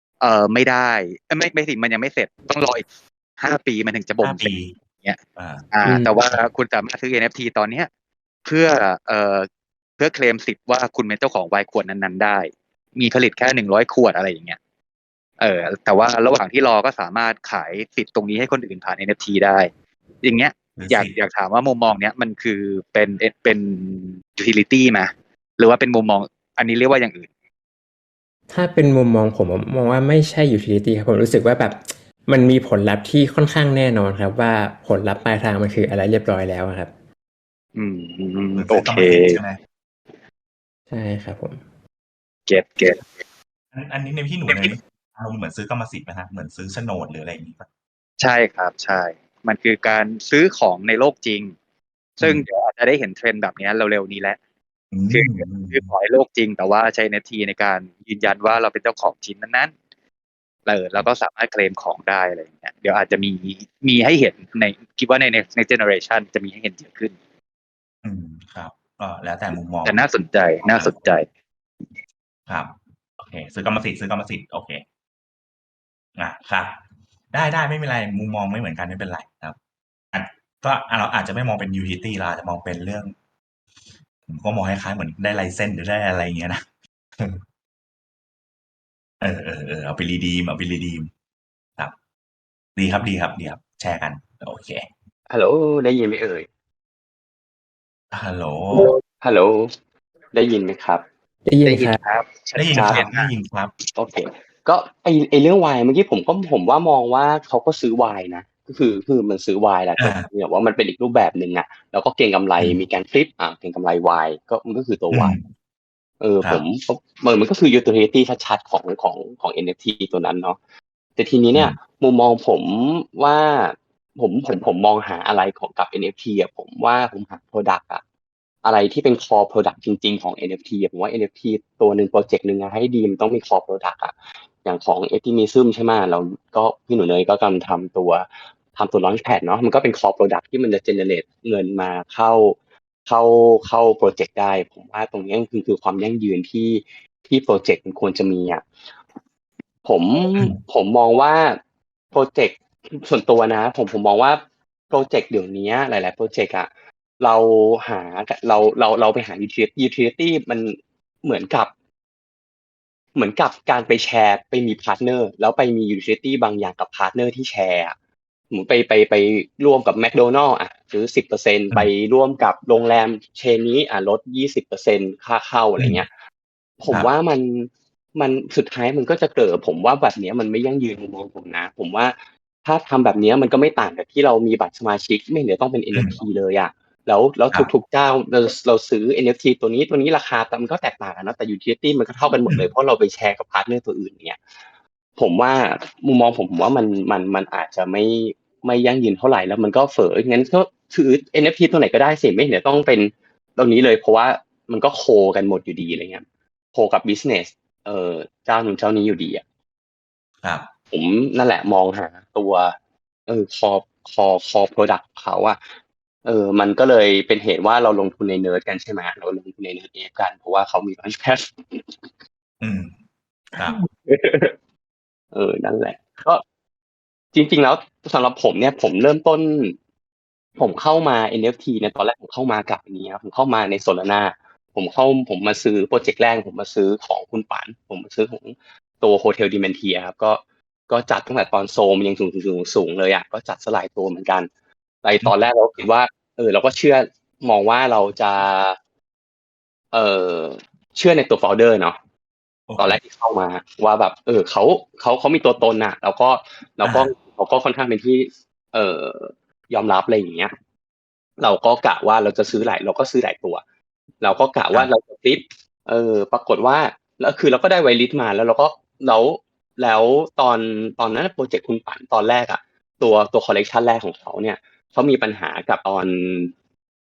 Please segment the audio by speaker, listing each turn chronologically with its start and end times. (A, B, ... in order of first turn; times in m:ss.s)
0:00.2-0:02.8 A
0:03.4-0:05.2 A
0:04.2-0:04.7 B
0:05.4-0:05.6 B
0:05.7-0:07.9 A
0:05.8-0:06.1 C
0:08.4-0:09.5 A
0:10.0-0:14.6 A
0:15.4-0:19.7 A
0:20.2-0:27.3 A
0:20.8-0:21.1 B
0:28.5-0:36.9 C
0:37.7-0:39.4 A
0:38.6-0:39.6 B
0:40.9-0:41.6 C
0:42.5-0:43.1 A
0:43.7-0:47.7 B
0:44.5-0:44.7 A
0:48.2-0:51.5 A
0:52.2-0:54.4 A
0:52.2-0:52.4 B
0:54.9-0:55.9 B
0:55.1-0:59.7 A
1:00.6-1:07.1 A
1:08.0-1:10.0 B
1:09.8-1:11.3 A
1:10.7-1:11.0 B
1:12.5-1:14.8 B
1:16.2-1:16.8 B
1:17.3-1:19.6 B
1:20.1-1:23.1 B
1:24.3-1:26.6 B
1:29.2-1:31.1 B
1:32.8-1:34.9 B
1:35.3-1:36.4 D
1:38.1-1:38.9 B
1:39.2-1:39.7 D
1:40.3-1:41.0 D
1:41.4-1:42.0 C
1:41.6-1:43.3 A
1:42.6-1:43.7 B
1:42.7-1:43.1 D
1:43.9-1:55.3 D
1:50.0-1:50.2 B
1:55.1-1:55.4 B
1:56.2-2:00.6 D
2:01.2-2:08.0 D
2:08.6-2:28.6 D
2:29.8-2:31.6 D
2:32.1-2:36.7 D
2:37.2-2:41.7 D
2:43.1-2:47.9 D
2:48.5-2:56.1 D
2:56.8-3:14.4 D
3:15.2-3:29.4 D
3:30.4-3:30.7 B
3:30.9-3:32.7 D
3:33.3-3:35.6 D
3:36.2-3:42.0 D
3:42.6-3:42.9 B
3:43.5-3:43.8 B
3:43.6-3:44.5 D
3:45.3-3:46.4 D
3:47.3-3:49.8 D
3:50.6-4:04.5 D
4:05.0-4:08.8 D
4:09.9-4:12.0 D
4:12.7-4:13.0 B
4:12.8-4:20.5 D
4:16.8-4:17.1 B
4:21.4-4:23.6 D
4:24.2-4:36.5 D